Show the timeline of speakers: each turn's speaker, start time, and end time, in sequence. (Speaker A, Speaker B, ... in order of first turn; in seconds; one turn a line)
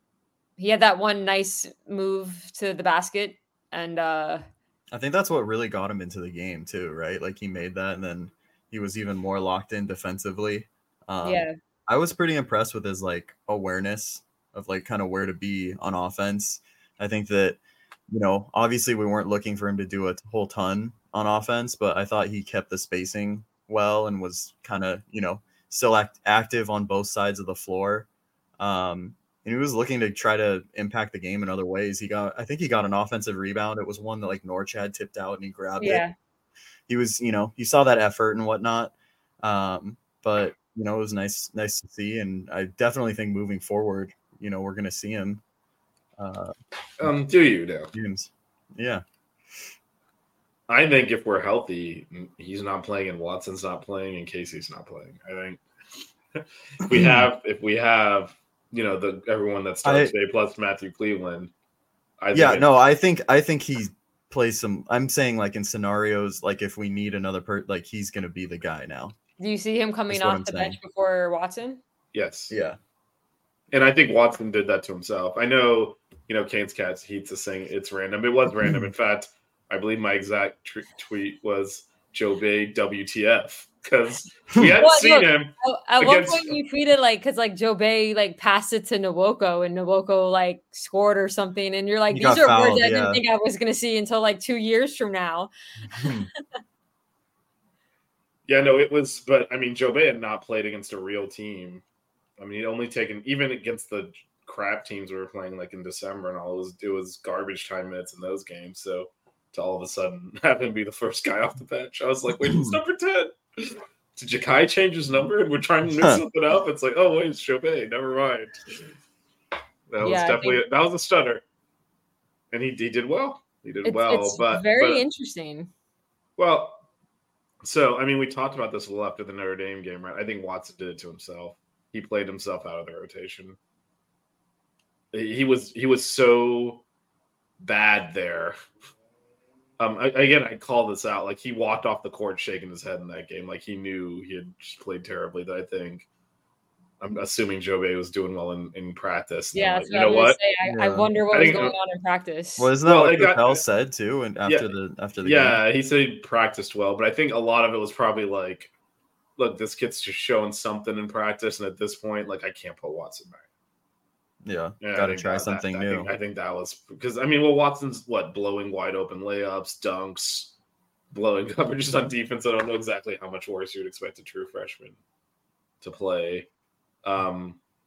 Speaker A: 0.6-4.4
Speaker B: 4.9-28.1
Speaker A: 11.2-11.5
Speaker B: 28.6-36.0
Speaker A: 35.8-36.1
Speaker B: 36.9-45.4
Speaker B: 46.2-46.5
Speaker C: 47.0-47.9
Speaker B: 47.9-49.0
Speaker C: 50.7-55.6
Speaker C: 56.4-61.5
Speaker B: 56.9-57.2
Speaker B: 59.8-60.1
Speaker C: 62.2-62.8
Speaker B: 62.3-69.2
Speaker A: 69.4-71.8
Speaker B: 70.1-70.8
Speaker C: 72.1-72.5
Speaker B: 72.5-72.8
Speaker C: 73.7-86.6
Speaker A: 84.8-96.1
Speaker B: 92.1-93.2
Speaker B: 95.9-96.3
Speaker C: 98.5-101.8
Speaker C: 102.4-118.6
Speaker B: 112.5-112.8
Speaker C: 119.9-121.4
Speaker A: 120.0-120.6
Speaker C: 122.5-125.0
Speaker A: 123.8-125.7
Speaker C: 126.4-126.8
Speaker C: 127.6-133.6
Speaker C: 135.1-136.8
Speaker C: 137.6-138.6
Speaker C: 139.8-146.1
Speaker C: 147.0-150.4
Speaker A: 149.6-152.7
Speaker B: 150.6-151.1
Speaker C: 151.3-151.8
Speaker B: 152.6-155.6
Speaker C: 152.8-153.6
Speaker C: 154.5-158.7
Speaker C: 159.4-163.4
Speaker B: 164.4-166.1
Speaker C: 164.8-170.5
Speaker C: 171.1-175.0
Speaker C: 175.8-176.5
Speaker C: 177.0-177.6